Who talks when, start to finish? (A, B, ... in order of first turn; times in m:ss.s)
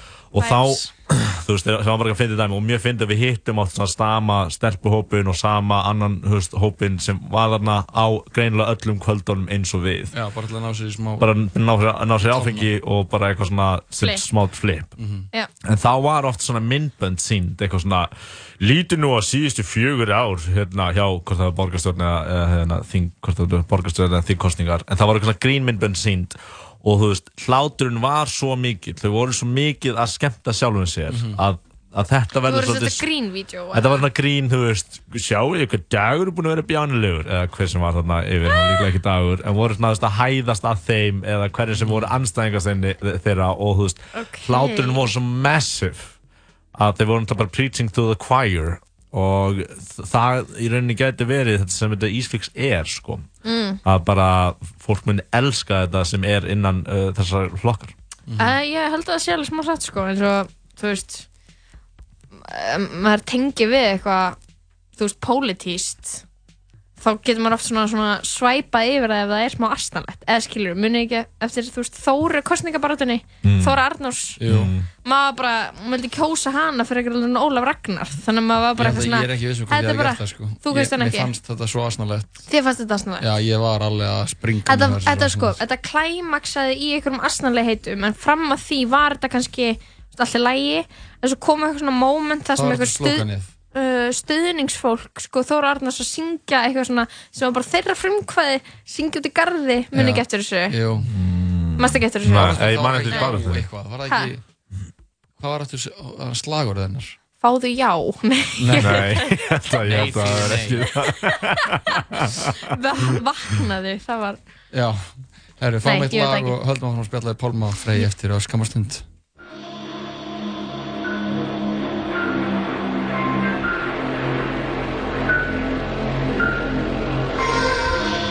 0:00.3-0:10.1 A
0:00.4-0:00.9 B
0:10.1-0:11.3 C
0:11.2-0:14.9 A
0:12.3-0:12.7 C
0:15.0-0:15.3 C
0:15.6-0:33.1 A
0:31.1-0:31.4 C
0:32.5-0:34.0 B
0:33.7-0:46.1 A
0:38.5-0:38.9 B
0:41.8-0:42.1 C
0:44.1-0:45.1 B
0:46.8-0:53.3 A
0:53.5-0:53.8 B
0:53.8-0:57.9 A
0:58.3-0:58.6 C
0:58.4-1:01.3 B
1:02.4-1:04.4 B
1:05.0-1:06.2 B
1:07.0-1:14.4 B
1:13.4-1:13.8 A
1:14.4-1:14.7 C
1:14.5-1:14.9 A
1:15.0-1:21.3 B
1:18.8-1:22.4 C
1:22.5-1:23.3 B
1:23.2-1:25.6 C
1:24.7-1:40.8 B
1:32.6-1:33.5 C
1:39.9-1:41.1 C
1:41.0-1:43.7 A
1:41.8-1:43.4 B
1:42.3-1:44.4 C
1:45.4-1:47.2 C
1:47.4-1:49.4 B
1:48.6-1:49.1 C
1:48.7-1:52.6 A
1:49.8-1:50.9 C
1:51.8-1:54.4 B
1:54.7-1:59.0 C
1:55.8-1:56.6 B